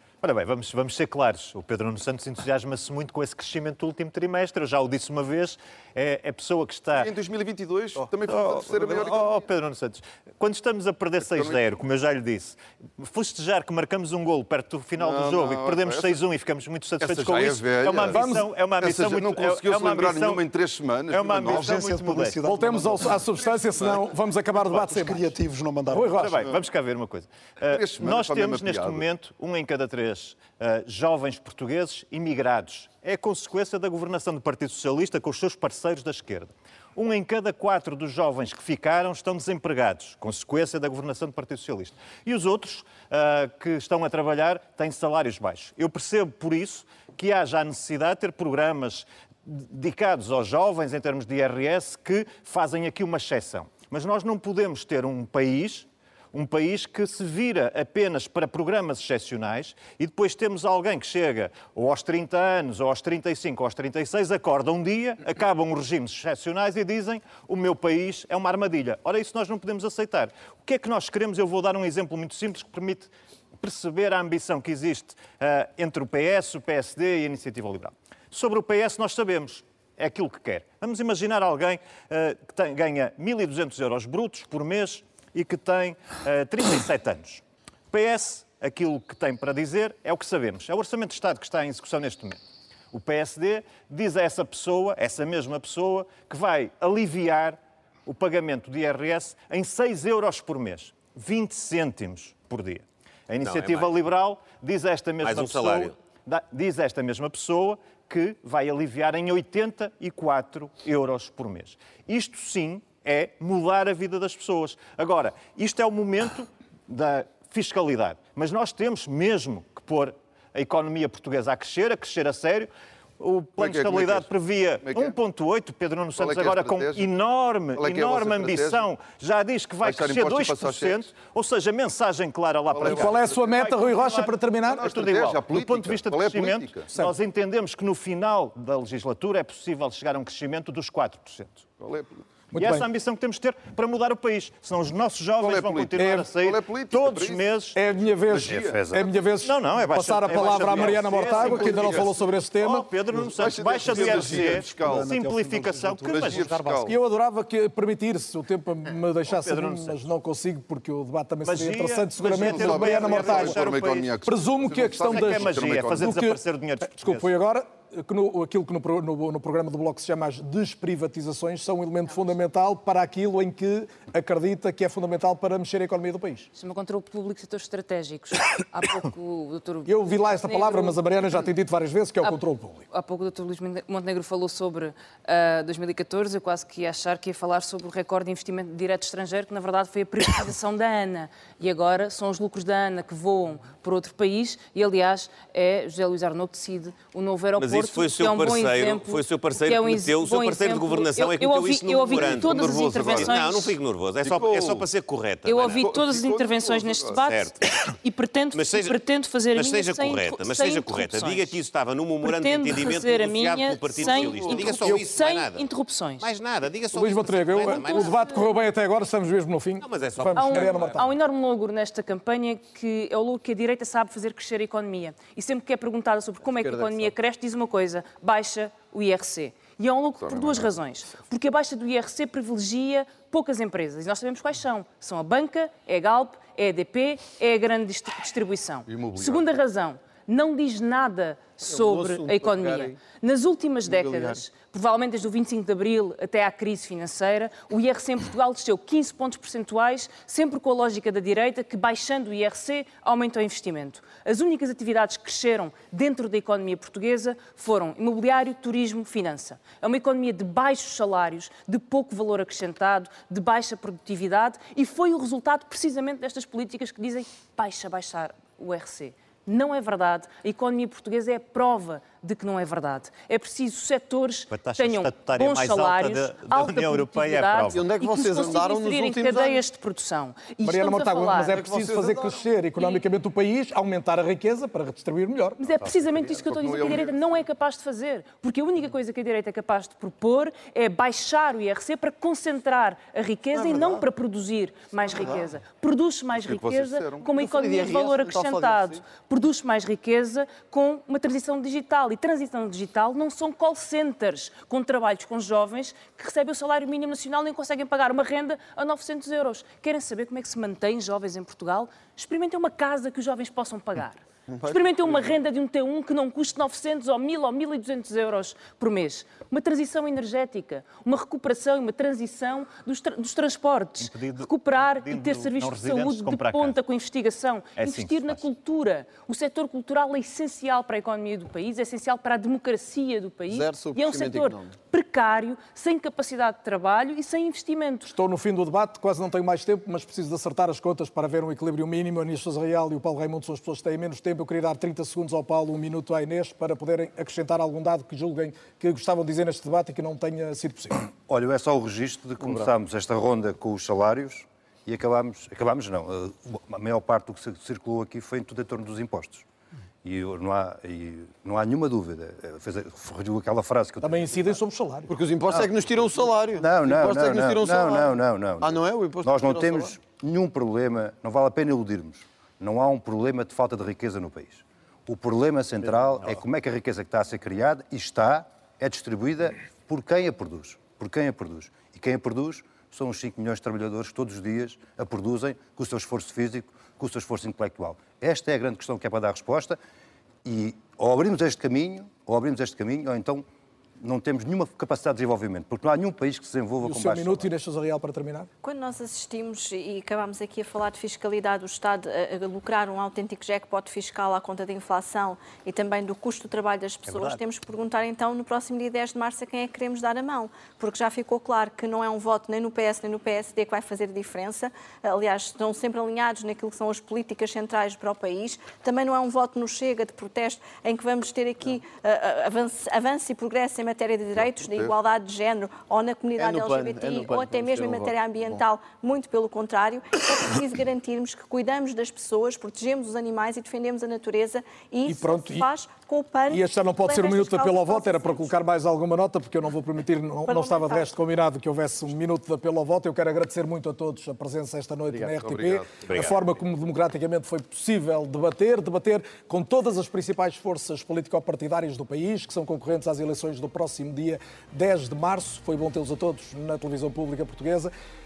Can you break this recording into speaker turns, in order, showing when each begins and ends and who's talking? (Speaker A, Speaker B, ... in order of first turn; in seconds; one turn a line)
Speaker A: 0.2-7.1
Speaker B: 6.9-9.5
Speaker A: 8.0-20.5
Speaker B: 11.2-11.6
Speaker B: 14.9-16.2
Speaker B: 17.0-21.8
Speaker C: 18.1-18.5
Speaker A: 21.1-22.4
Speaker D: 21.4-23.2
Speaker C: 22.4-25.3
Speaker B: 23.4-24.1
Speaker D: 24.8-26.4
Speaker C: 25.9-26.4
Speaker A: 26.1-92.4
Speaker B: 27.6-29.1
Speaker A: 92.9-141.7
Speaker E: 103.4-103.9
Speaker E: 105.2-105.9
Speaker B: 123.6-124.3
Speaker B: 124.8-125.2
Speaker B: 126.2-127.1
Speaker B: 127.8-128.9
Speaker B: 129.8-131.1
Speaker B: 132.7-133.6
Speaker C: 132.8-134.9
Speaker B: 134.7-136.9
Speaker C: 136.9-137.2
Speaker B: 141.8-142.2
Speaker C: 142.5-142.9
Speaker A: 142.6-147.9
Speaker B: 145.4-147.5
Speaker C: 146.0-146.3
Speaker C: 147.8-152.9
Speaker B: 148.2-149.0
Speaker F: 148.4-149.1
Speaker A: 149.4-156.8
Speaker B: 150.3-152.1
Speaker B: 153.2-155.1
Speaker D: 153.8-156.9
Speaker C: 153.8-155.1
Speaker B: 156.1-156.9
Speaker C: 156.9-163.7
Speaker A: 159.3-160.0
Speaker A: 161.4-164.2
Speaker B: 162.3-166.2
Speaker C: 164.3-176.5
Speaker A: 165.0-167.3
Speaker G: 176.6-181.5
Speaker C: 179.9-182.8
Speaker G: 182.2-203.8
Speaker E: 197.6-205.9
Speaker B: 202.1-203.4
Speaker B: 204.2-204.9
Speaker G: 205.4-211.6
Speaker B: 205.7-207.2
Speaker E: 207.1-207.9
Speaker E: 208.5-209.0
Speaker E: 209.5-215.7
Speaker G: 212.2-216.3
Speaker B: 213.9-215.0
Speaker E: 216.2-218.4
Speaker C: 216.9-221.1
Speaker G: 217.6-218.5
Speaker E: 219.8-221.1
Speaker G: 220.3-281.6
Speaker H: 226.4-227.1
Speaker B: 230.2-230.8
Speaker B: 238.9-239.5
Speaker H: 241.6-243.0
Speaker H: 243.8-244.4
Speaker A: 274.5-277.9
Speaker H: 277.7-279.6
Speaker C: 280.6-285.6
Speaker H: 281.5-282.4
Speaker G: 285.6-338.1
Speaker F: 285.9-286.2
Speaker B: 286.3-287.4
Speaker H: 293.5-294.1
Speaker H: 295.1-295.5
Speaker B: 296.3-297.3
Speaker H: 297.4-299.1
Speaker H: 314.5-315.4
Speaker A: 324.0-326.8
Speaker A: 327.8-328.4
Speaker H: 333.5-334.7
Speaker C: 338.1-351.0
Speaker F: 351.3-359.4
Speaker F: 360.0-364.6
Speaker C: 364.0-365.1
Speaker H: 365.1-369.9
Speaker F: 365.5-389.8
Speaker F: 390.4-393.4
Speaker F: 394.0-397.5
Speaker C: 396.8-398.5
Speaker I: 398.6-438.5
Speaker A: 407.1-407.4
Speaker B: 424.4-424.9
Speaker H: 426.4-428.6
Speaker C: 435.1-435.7
Speaker C: 436.5-457.9
Speaker I: 440.5-441.1
Speaker B: 445.1-446.4